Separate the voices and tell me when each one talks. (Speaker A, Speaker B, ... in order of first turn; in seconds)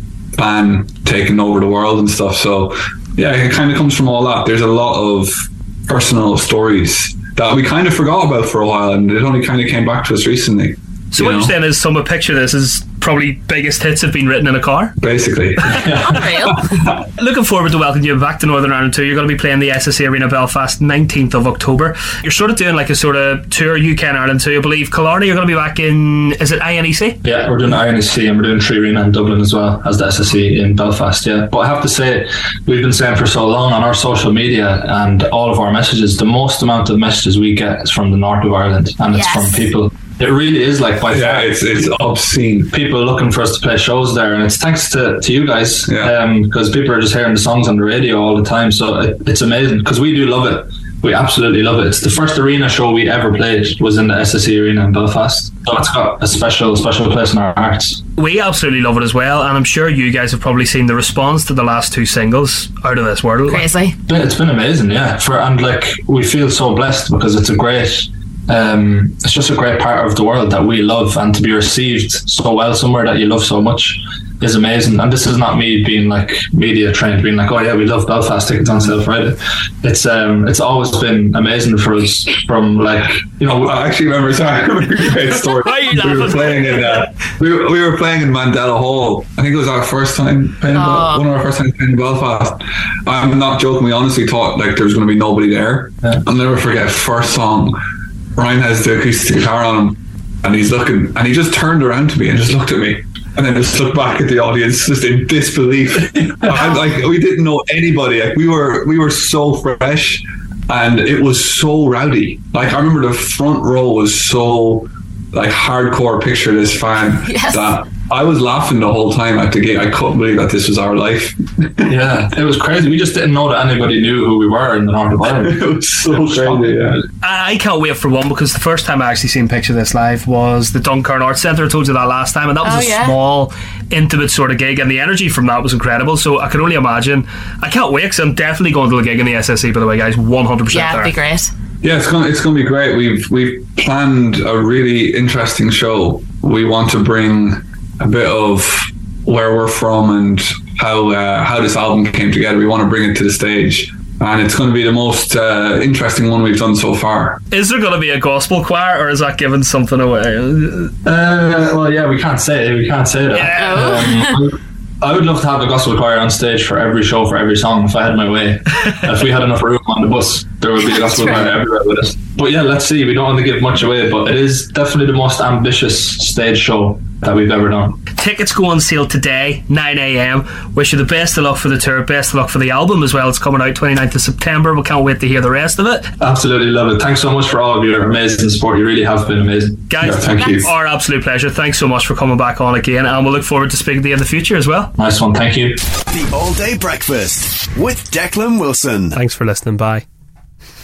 Speaker A: 0.3-11.5, 15.0-16.9, 41.1-42.7, 45.9-46.2, 83.6-97.8, 98.3-122.0, 125.2-127.0, 141.8-157.4, 190.0-190.7
Speaker B: 11.1-14.9, 17.2-27.2, 58.2-63.6, 85.5-86.9, 127.2-141.1, 157.5-160.9, 163.3-164.0, 178.2-186.1, 189.9-194.9, 199.1-200.0
Speaker C: 16.0-16.6, 39.1-39.6, 63.5-64.0, 90.7-91.3, 117.2-117.7, 132.6-133.2, 140.7-141.5, 163.6-164.3, 170.8-171.5
Speaker D: 27.2-41.6, 42.7-58.0, 64.1-83.8, 121.9-126.7, 161.0-178.0, 186.2-189.9, 195.0-195.8
Speaker E: 196.1-199.2